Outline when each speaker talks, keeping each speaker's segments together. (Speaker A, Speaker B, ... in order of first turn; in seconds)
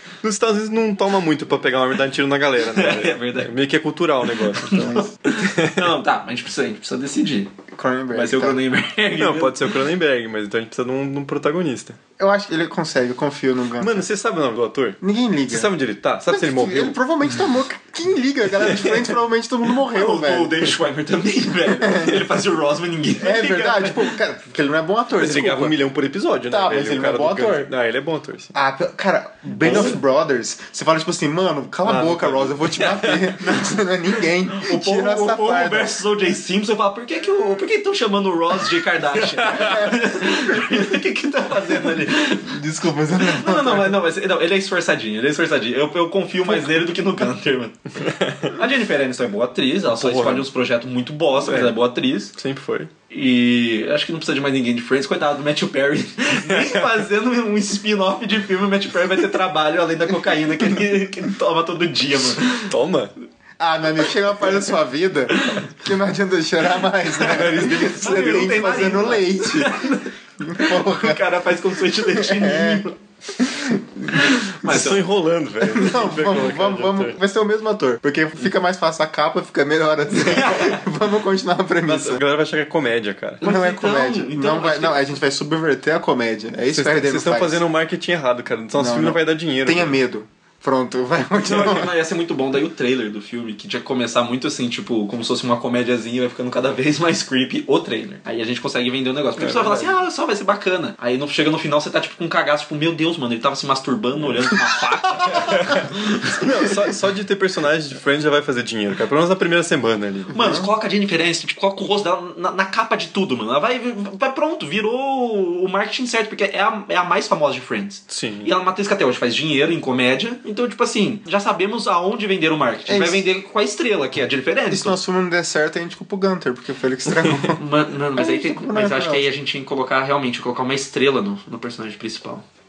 Speaker A: 0.2-5.8, 9.2-12.0, 13.8-17.0, 25.2-28.5, 31.8-33.2, 48.0-48.5, 49.9-50.5, 51.4-51.8, 52.4-52.9, 56.5-56.8, 62.6-63.1, 67.2-68.9, 74.6-77.2, 81.9-83.4, 86.7-90.0, 99.4-100.0, 105.3-110.4, 118.1-118.5
Speaker B: 2.7-3.5, 4.6-7.5, 8.1-9.7, 19.8-24.1, 29.6-30.0, 33.4-42.5, 43.2-52.3, 53.1-62.7, 65.3-65.7, 67.2-73.0, 74.1-75.0, 80.2-80.8, 83.4-85.1, 91.4-106.7, 110.3-125.0, 127.6-132.4
Speaker C: 4.7-5.1, 7.7-8.6, 12.2-14.1, 15.0-15.7, 16.3-20.7, 21.8-22.2, 23.2-25.8, 26.5-27.7, 28.5-35.9, 39.5-40.0, 42.4-44.0, 63.6-71.2, 72.0-72.9, 73.4-74.3, 75.6-82.2, 83.4-87.6, 88.8-91.9, 110.3-110.7, 122.9-123.2, 124.7-127.6, 128.2-129.2